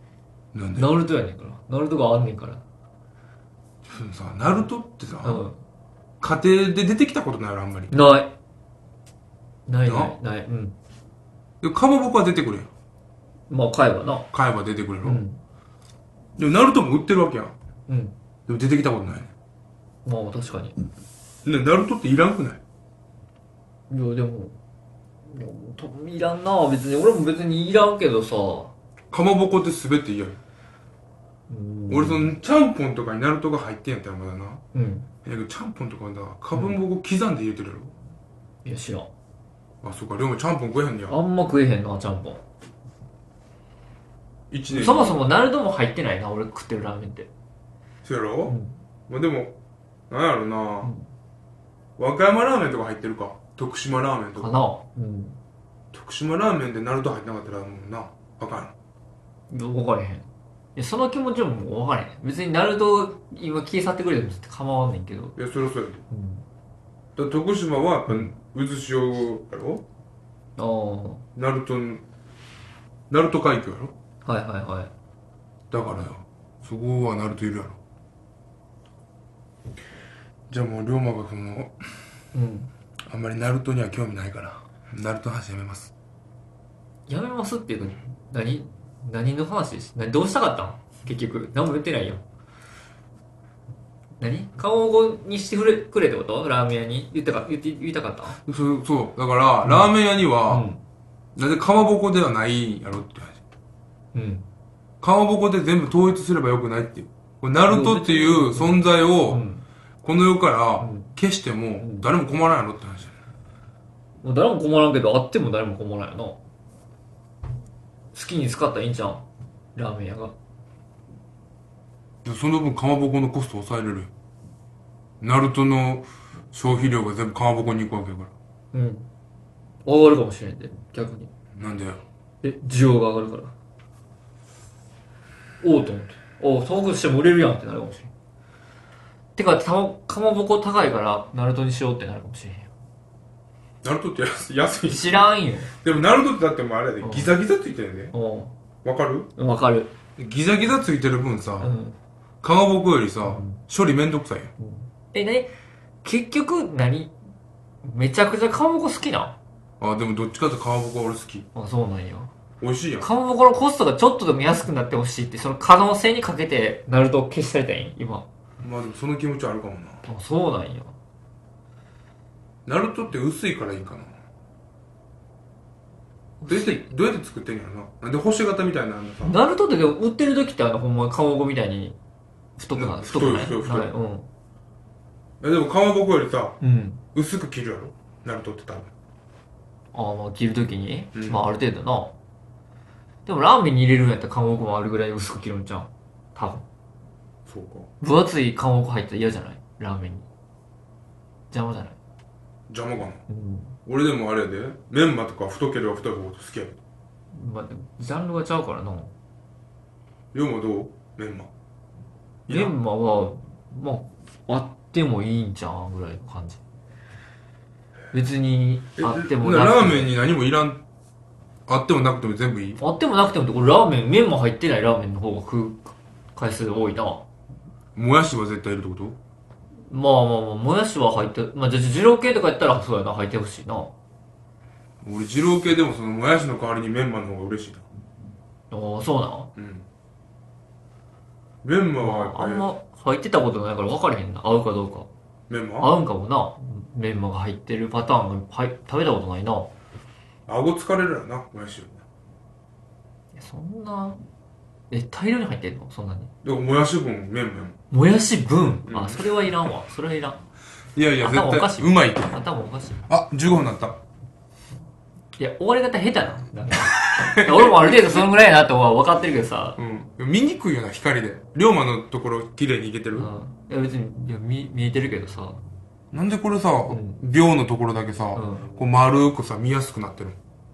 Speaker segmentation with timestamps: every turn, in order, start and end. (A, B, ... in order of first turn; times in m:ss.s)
0:00.5-0:00.9 A
0:00.7-0:02.6 B
0:03.8-0:05.4 A
0:05.1-0:05.6 B
0:06.2-0:07.9 A
0:07.9-0:08.3 B
0:09.7-0:10.8 B
0:09.8-0:10.1 A
0:11.6-0:12.7 A
0:13.5-0:14.3 B
0:14.3-0:15.2 A
0:15.0-0:15.4 B
0:16.4-0:17.5 A
0:17.9-0:18.1 B
0:18.5-0:19.3 A
0:20.0-0:20.7 B
0:21.4-0:22.6 A
0:23.9-0:24.6 B
0:25.3-0:28.7 B
0:29.1-0:30.4 A
0:31.5-0:32.4 B
0:31.9-0:34.6 A
0:34.7-0:35.1 B
0:35.2-0:37.9 A
0:38.6-0:39.1 B
0:39.8-0:41.2 A
0:41.1-0:42.4 B
0:44.5-0:45.1 A
0:44.7-0:47.3 B
0:48.0-0:48.6 A
0:48.4-0:48.8 B
0:49.1-0:49.6 A
0:50.1-0:50.9 A
0:50.8-0:51.1 B
0:52.0-0:54.6 A
0:54.4-0:55.4 B
0:55.9-0:58.7 A
0:59.5-1:05.4 B
1:05.4-1:06.0 A
1:06.1-1:06.4 B
1:07.2-1:09.8 A
1:10.6-1:11.2 B
1:11.4-1:12.0 A
1:13.1-1:13.9 A
1:14.2-1:14.9 B
1:15.7-1:17.8 A
1:20.5-1:21.8 A
1:22.3-1:22.7 B
1:23.1-1:25.9 A
1:27.1-1:32.2 B
1:34.2-1:38.4 B
1:38.4-1:40.7 A
1:39.6-1:39.9 B
1:40.4-1:40.8 B
1:41.4-1:43.4 A
1:44.1-1:44.4 B
1:45.0-1:49.4 A
1:47.6-1:49.6 B
1:50.0-1:53.1 A
1:50.8-1:51.1 B
1:51.8-1:52.1 B
1:54.2-1:56.4 B
1:58.1-2:00.3 B
2:02.2-2:04.1 A
2:05.2-2:08.3 A
2:08.7-2:09.1 B
2:09.8-2:11.3 B
2:11.6-2:12.0 A
2:12.4-2:13.5 B
2:15.6-2:18.1 B
2:19.4-2:22.7 B
2:23.8-2:28.1 A
2:24.8-2:25.7 B
2:27.0-2:27.4 B
2:28.1-2:28.5 B
2:28.8-2:29.3 A
2:29.4-2:29.9 B
2:30.2-2:31.7 A
2:31.6-2:32.0 B
2:32.4-2:34.5 A
2:33.2-2:33.6 B
2:34.6-2:35.5 B
2:36.0-2:37.1 B
2:37.8-2:39.4 B
2:39.8-2:41.5 A
2:41.5-2:42.3 B
2:42.6-2:43.1 A
2:43.0-2:48.3 B
2:48.6-2:50.0 A
2:50.0-2:51.0 B
2:52.7-2:54.1 A
2:56.4-2:56.9 B
2:56.5-2:59.4 A
2:59.2-3:02.0 B
3:02.6-3:04.3 B
3:02.7-3:03.9 A
3:05.4-3:06.6 A
3:06.6-3:07.0 B
3:07.1-3:08.9 A
3:09.9-3:12.1 B
3:11.1-3:11.4 A
3:13.2-3:16.6 B
3:17.5-3:17.9 A
3:18.0-3:20.3 B
3:21.5-3:22.0 B
3:22.7-3:23.2 A
3:23.3-3:23.8 B
3:23.8-3:26.8 A
3:27.3-3:29.1 B
3:30.3-3:31.5 A
3:32.5-3:32.8 A
3:32.5-3:36.6 B
3:38.1-3:40.2 B
3:39.0-3:40.8 A
3:41.7-3:42.8 A
3:42.8-3:47.2 B
3:48.0-3:49.2 A
3:49.9-3:53.9 B
3:55.0-3:57.8 A
3:58.7-3:59.5 B
3:59.6-3:59.9 A
4:01.6-4:02.7 A
4:02.0-4:05.1 B
4:05.5-4:05.9 A
4:05.8-4:09.7 B
4:10.5-4:12.0 A
4:13.4-4:14.2 B
4:14.9-4:16.3 B
4:16.4-4:17.8 A
4:17.9-4:20.4 B
4:18.8-4:19.2 A
4:21.0-4:22.4 A
4:21.2-4:23.0 B
4:23.1-4:24.0 A
4:25.4-4:29.8 B
4:26.8-4:28.2 A
4:29.8-4:33.3 A
4:33.1-4:35.6 B
4:36.1-4:40.4 A
4:36.9-4:37.2 B
4:38.3-4:38.8 B